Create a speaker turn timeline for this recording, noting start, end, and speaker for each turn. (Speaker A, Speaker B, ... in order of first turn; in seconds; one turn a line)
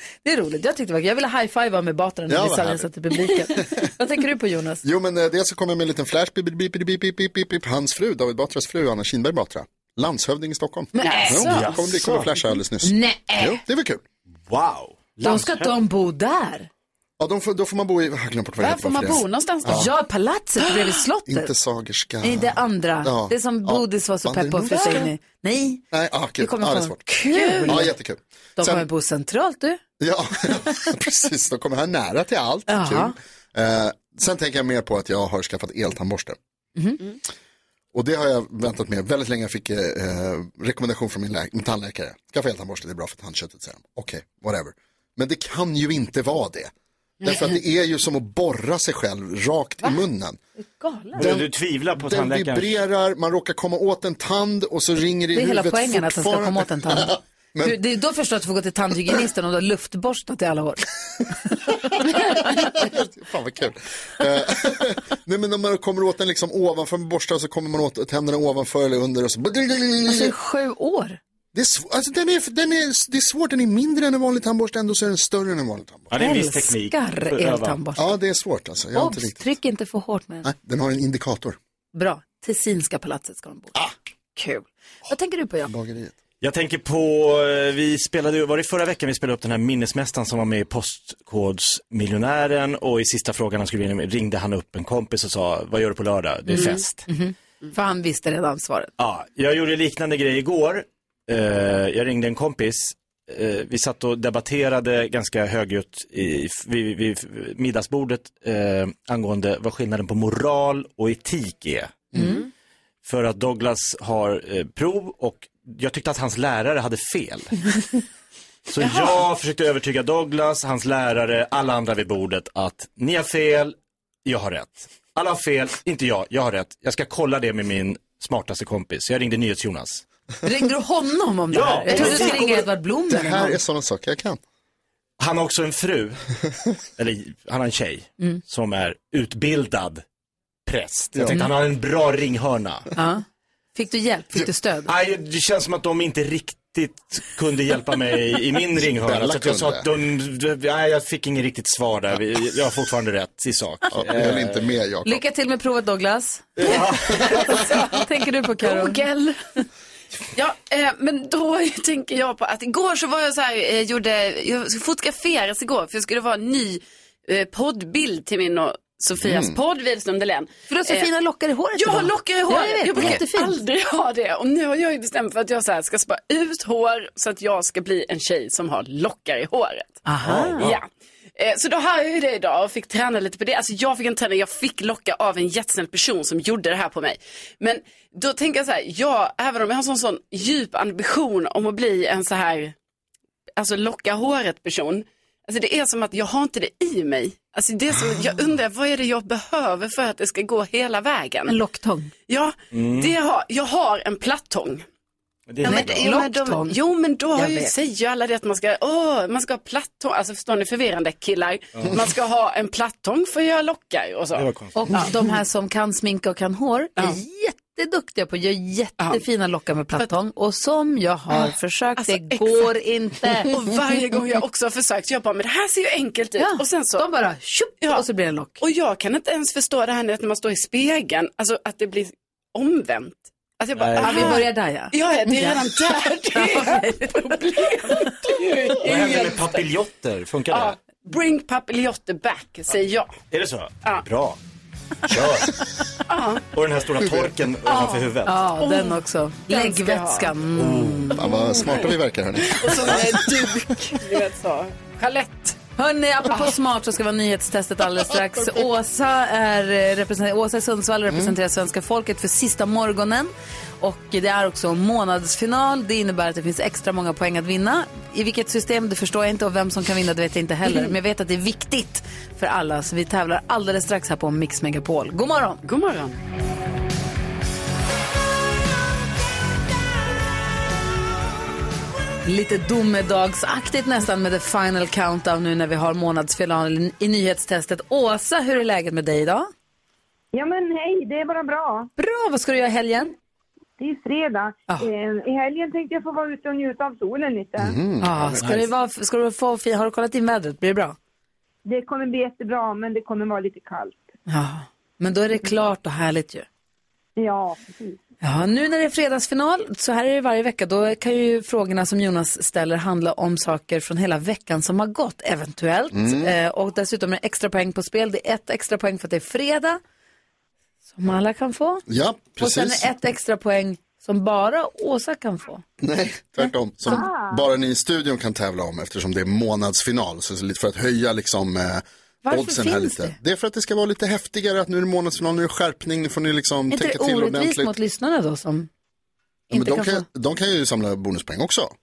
Speaker A: 0.2-4.8
Speaker B: 2.3-2.9
Speaker B: 3.5-3.9
Speaker B: 4.8-14.0
Speaker A: 10.9-11.3
Speaker C: 11.0-11.8
Speaker D: 11.4-12.3
Speaker A: 12.8-13.6
Speaker D: 14.5-15.7
Speaker A: 15.2-16.7
Speaker B: 17.2-19.9
Speaker C: 18.6-19.9
Speaker A: 19.7-21.5
Speaker B: 21.3-25.1
Speaker A: 22.2-25.8
Speaker B: 25.9-27.0
Speaker A: 26.4-27.9
Speaker C: 27.3-27.9
Speaker B: 27.6-28.9
Speaker A: 28.6-29.8
Speaker B: 30.0-36.4
Speaker A: 32.7-33.1
Speaker B: 37.9-46.7
Speaker B: 47.2-50.4
Speaker A: 50.8-51.2
Speaker D: 51.1-52.8
Speaker B: 51.2-57.8
Speaker A: 55.3-61.5
Speaker A: 62.1-62.5
Speaker B: 62.2-70.3
Speaker A: 70.0-71.2
Speaker B: 71.5-76.1
Speaker D: 76.1-77.8
Speaker A: 76.2-78.1
Speaker B: 78.0-79.5
Speaker A: 78.9-80.5
Speaker B: 80.4-81.6
Speaker A: 81.9-83.8
Speaker A: 84.3-85.7
Speaker B: 85.7-86.2
Speaker D: 86.4-97.1
Speaker A: 96.5-98.9
Speaker D: 99.0-112.1
Speaker A: 112.2-112.4
Speaker C: 112.2-112.5
Speaker D: 113.0-118.0
Speaker D: 118.7-130.0
Speaker C: 118.8-119.2
Speaker A: 130.4-133.6
Speaker D: 131.5-132.6
Speaker B: 131.9-134.4
Speaker D: 135.2-136.2
Speaker D: 137.0-140.0
Speaker D: 140.7-142.9
Speaker B: 141.1-141.5
Speaker A: 142.9-143.2
Speaker A: 143.7-144.9
Speaker D: 144.9-154.6
Speaker B: 148.8-149.8
Speaker B: 153.9-155.2
Speaker A: 155.0-159.0
Speaker D: 156.6-157.3
Speaker C: 158.6-159.4
Speaker C: 160.3-171.1
Speaker B: 169.2-169.5
Speaker A: 170.7-173.6
Speaker C: 171.7-180.0
Speaker A: 180.1-180.7
Speaker B: 180.3-180.6
Speaker D: 180.3-180.7
Speaker C: 180.6-180.8
Speaker C: 181.4-192.7
Speaker C: 193.6-201.6
Speaker A: 201.5-202.1
Speaker C: 202.3-204.8
Speaker D: 202.7-203.1
Speaker D: 205.5-206.1
Speaker A: 205.6-206.8
Speaker C: 205.6-214.5
Speaker A: 207.3-207.7
Speaker D: 214.3-214.8
Speaker A: 214.7-223.5
Speaker C: 222.0-222.7
Speaker C: 223.5-227.0
Speaker A: 226.4-228.6
Speaker C: 228.6-239.6
Speaker D: 233.7-234.4
Speaker A: 234.0-238.5
Speaker D: 238.8-240.8
Speaker C: 240.5-243.2
Speaker D: 243.3-244.4
Speaker D: 245.1-245.5
Speaker C: 246.1-246.4
Speaker D: 246.5-248.4
Speaker C: 247.7-250.3
Speaker A: 248.2-251.3
Speaker D: 250.6-251.1
Speaker B: 251.2-253.2
Speaker C: 252.5-255.6
Speaker A: 255.8-275.6
Speaker C: 270.7-270.9
Speaker C: 275.6-276.2
Speaker A: 282.2-289.5
Speaker E: 290.3-291.9
Speaker A: 292.0-293.1
Speaker E: 293.8-297.7
Speaker B: 297.6-298.5
Speaker A: 298.0-300.9
Speaker D: 298.4-298.7
Speaker E: 301.7-303.9
Speaker A: 304.3-306.4
Speaker E: 307.2-307.9
Speaker A: 308.2-319.8
Speaker B: 315.9-316.3
Speaker A: 320.9-321.8
Speaker B: 321.9-322.9
Speaker A: 322.4-325.6
Speaker B: 325.8-337.7
Speaker A: 332.2-333.1
Speaker A: 336.7-338.7
Speaker A: 339.5-340.1
Speaker B: 339.5-341.7